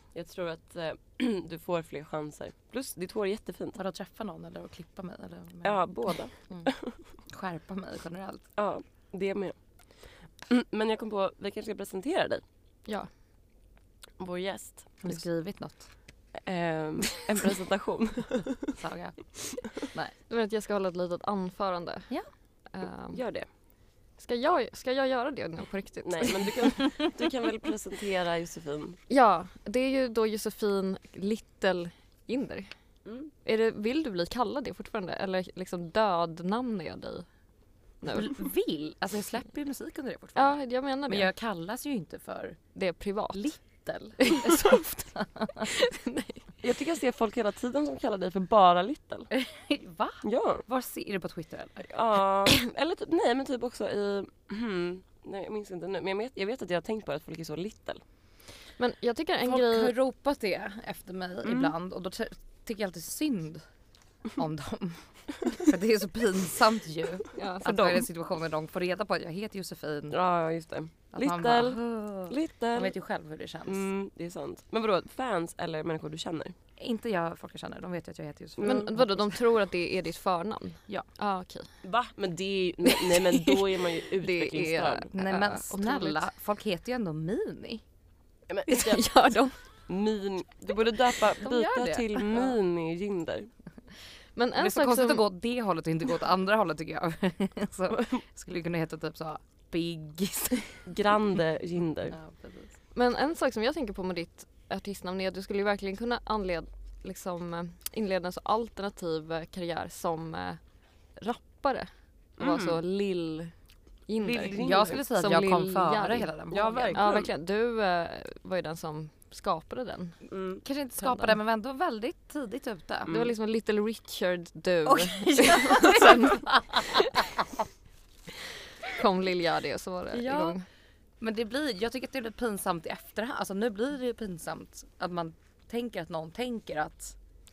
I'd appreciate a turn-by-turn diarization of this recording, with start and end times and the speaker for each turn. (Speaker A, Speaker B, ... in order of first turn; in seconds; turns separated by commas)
Speaker A: 0.1-3.8, Speaker B: 3.8-8.5, Speaker A: 5.6-7.0, Speaker A: 8.6-12.4, Speaker C: 12.8-13.1, Speaker A: 14.2-15.2, Speaker B: 15.0-15.9, Speaker A: 16.3-18.7, Speaker B: 18.7-20.1, Speaker C: 20.3-23.2, Speaker A: 23.1-23.5, Speaker C: 24.2-27.0, Speaker A: 26.0-29.0, Speaker C: 29.1-32.7, Speaker A: 33.0-33.3, Speaker C: 33.4-37.3, Speaker C: 38.0-38.4, Speaker B: 38.1-42.6, Speaker C: 40.4-41.3, Speaker C: 42.7-43.8, Speaker B: 43.3-45.7, Speaker C: 45.7-46.4, Speaker A: 46.6-49.3, Speaker B: 49.3-51.9, Speaker A: 50.2-50.6, Speaker A: 51.8-58.0, Speaker C: 58.8-59.9, Speaker B: 59.4-63.6, Speaker A: 61.4-61.7, Speaker B: 64.3-70.2, Speaker C: 67.3-68.0, Speaker A: 70.1-72.9, Speaker B: 71.1-73.9, Speaker A: 73.7-76.5, Speaker B: 76.8-79.3, Speaker A: 78.6-78.9, Speaker C: 78.6-81.8, Speaker A: 81.8-85.1, Speaker C: 82.8-86.2, Speaker B: 85.1-87.8, Speaker A: 88.5-89.1, Speaker C: 88.7-89.6, Speaker A: 89.9-93.5, Speaker B: 91.4-92.5, Speaker C: 94.3-95.2, Speaker B: 94.5-100.9, Speaker A: 100.9-102.2, Speaker B: 102.1-102.7, Speaker C: 102.9-110.6, Speaker C: 111.2-113.5, Speaker A: 112.4-112.8, Speaker C: 114.1-116.3, Speaker A: 114.2-115.0, Speaker B: 114.5-117.1, Speaker A: 116.5-117.3, Speaker C: 116.9-120.2, Speaker A: 120.3-120.6, Speaker B: 120.6-123.1, Speaker C: 121.0-121.3, Speaker A: 123.0-123.3, Speaker C: 123.1-127.2, Speaker B: 124.8-127.5, Speaker C: 128.8-130.7, Speaker B: 130.1-130.6, Speaker B: 131.2-137.2